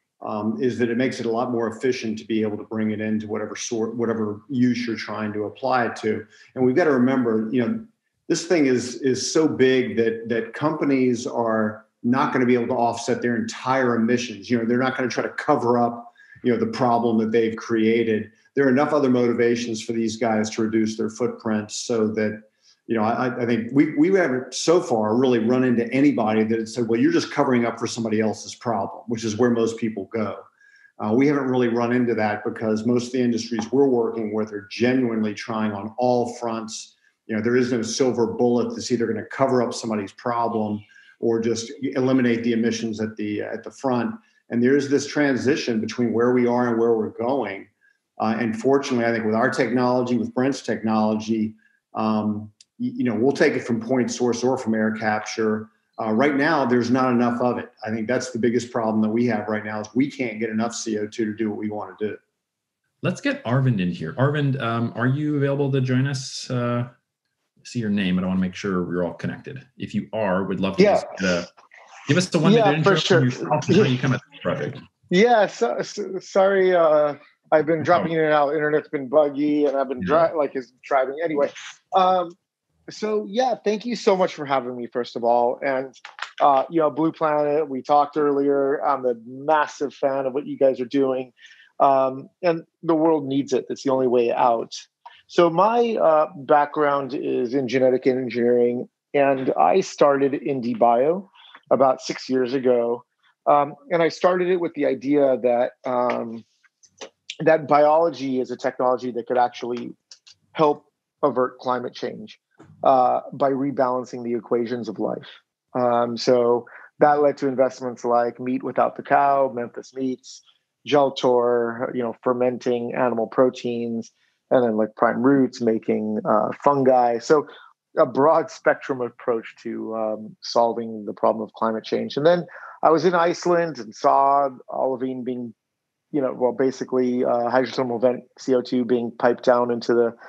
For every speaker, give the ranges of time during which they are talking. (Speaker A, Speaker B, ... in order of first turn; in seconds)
Speaker A: 0.2-30.4, 31.0-62.2
Speaker B: 63.0-66.9, 67.6-71.5, 72.1-74.8, 77.8-78.1, 80.0-80.3
Speaker C: 70.8-71.5, 72.4-73.9, 75.1-82.4, 82.9-106.5, 107.4-110.0, 110.5-135.5, 136.1-140.2